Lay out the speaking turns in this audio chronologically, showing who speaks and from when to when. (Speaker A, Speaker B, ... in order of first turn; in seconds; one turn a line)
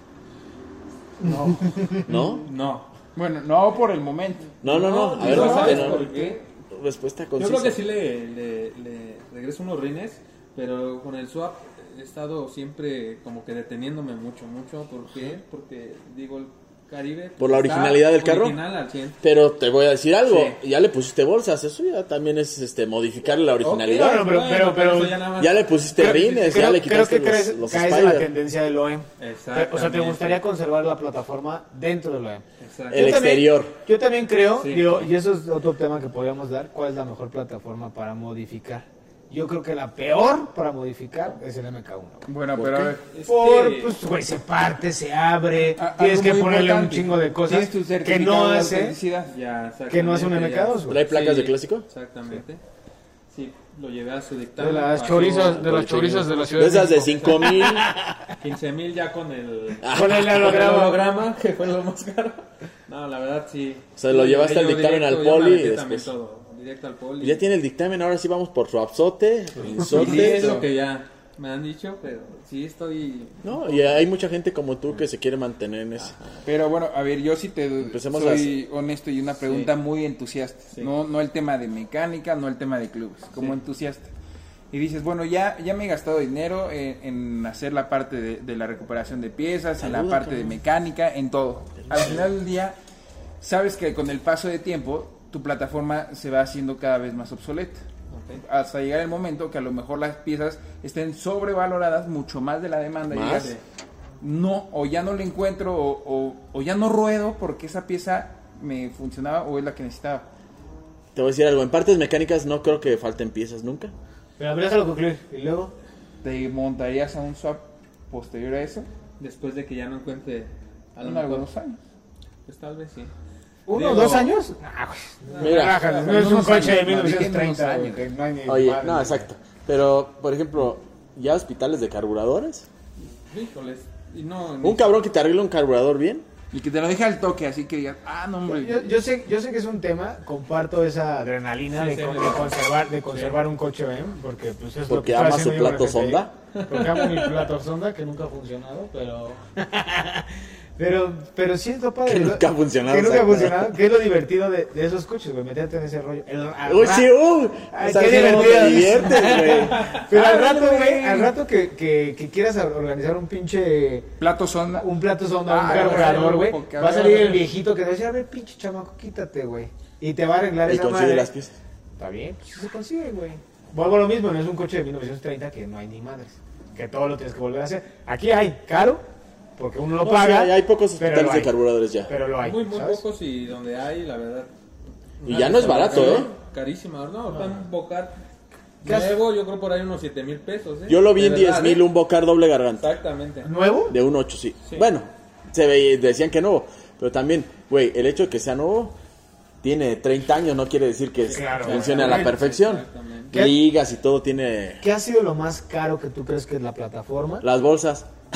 Speaker A: 1.2-2.9
Speaker B: 2.0-2.4
Speaker C: 3.1-4.6
Speaker B: 4.6-6.2
Speaker A: 4.6-6.4
Speaker D: 5.2-6.3
Speaker C: 5.2-5.7
Speaker B: 6.7-7.8
Speaker A: 7.4-19.2
Speaker B: 17.4-18.6
Speaker B: 19.2-24.3
Speaker A: 20.2-20.6
Speaker A: 23.6-26.6
Speaker D: 23.8-25.2
Speaker B: 25.4-28.3
Speaker D: 25.9-42.3
Speaker A: 29.2-30.4
Speaker A: 32.6-33.2
Speaker B: 32.9-33.7
Speaker A: 34.5-35.1
Speaker C: 42.3-43.0
Speaker B: 42.5-43.0
Speaker A: 43.1-43.9
Speaker D: 43.2-49.0
Speaker C: 45.8-49.3
Speaker A: 49.3-52.6
Speaker D: 49.9-51.0
Speaker B: 50.9-51.9
Speaker A: 53.3-55.7
Speaker D: 54.6-58.1
Speaker B: 55.3-58.0
Speaker A: 56.9-57.5
Speaker A: 58.4-67.4
Speaker B: 59.8-60.9
Speaker D: 59.9-61.0
Speaker B: 64.0-66.1
Speaker B: 67.2-70.6
Speaker C: 69.8-70.7
Speaker A: 69.8-74.1
Speaker B: 73.4-76.2
Speaker A: 76.0-76.4
Speaker C: 76.4-84.1
Speaker B: 77.8-78.5
Speaker A: 79.4-79.7
Speaker C: 84.7-92.8
Speaker B: 89.8-90.6
Speaker B: 91.8-92.3
Speaker C: 93.4-97.8
Speaker A: 98.1-98.4
Speaker C: 98.4-103.6
Speaker B: 103.1-103.5
Speaker C: 104.2-110.2
Speaker B: 111.1-113.9
Speaker D: 114.4-115.7
Speaker C: 116.2-118.9
Speaker A: 119.2-121.5
Speaker C: 121.0-121.8
Speaker A: 122.5-123.1
Speaker D: 123.7-129.3
Speaker A: 123.7-124.4
Speaker A: 125.2-126.9
Speaker B: 125.4-125.8
Speaker C: 125.9-128.0
Speaker B: 128.4-132.7
Speaker A: 133.0-135.0
Speaker B: 134.6-136.2
Speaker C: 136.5-138.9
Speaker D: 138.5-164.1
Speaker A: 141.7-143.4
Speaker B: 144.9-146.3
Speaker A: 146.5-147.4
Speaker B: 152.0-153.7
Speaker B: 156.6-159.9
Speaker A: 159.2-160.1
Speaker C: 160.1-161.3
Speaker C: 164.2-164.9
Speaker D: 164.8-171.3
Speaker C: 165.4-167.5
Speaker A: 165.7-166.6
Speaker B: 170.6-171.5
Speaker D: 172.0-179.0
Speaker D: 179.6-181.5
Speaker B: 180.0-182.1
Speaker D: 182.1-183.0
Speaker A: 182.4-184.5
Speaker A: 185.2-188.2
Speaker B: 185.2-186.3
Speaker D: 185.8-186.3
Speaker D: 188.8-189.2
Speaker A: 188.8-191.9
Speaker B: 190.9-192.9
Speaker A: 192.8-193.5
Speaker D: 193.4-194.0
Speaker B: 193.9-198.9
Speaker A: 194.6-194.9
Speaker B: 199.6-204.8
Speaker A: 201.2-203.4
Speaker D: 201.3-202.3
Speaker D: 203.3-203.6
Speaker D: 204.8-207.4
Speaker B: 207.4-208.1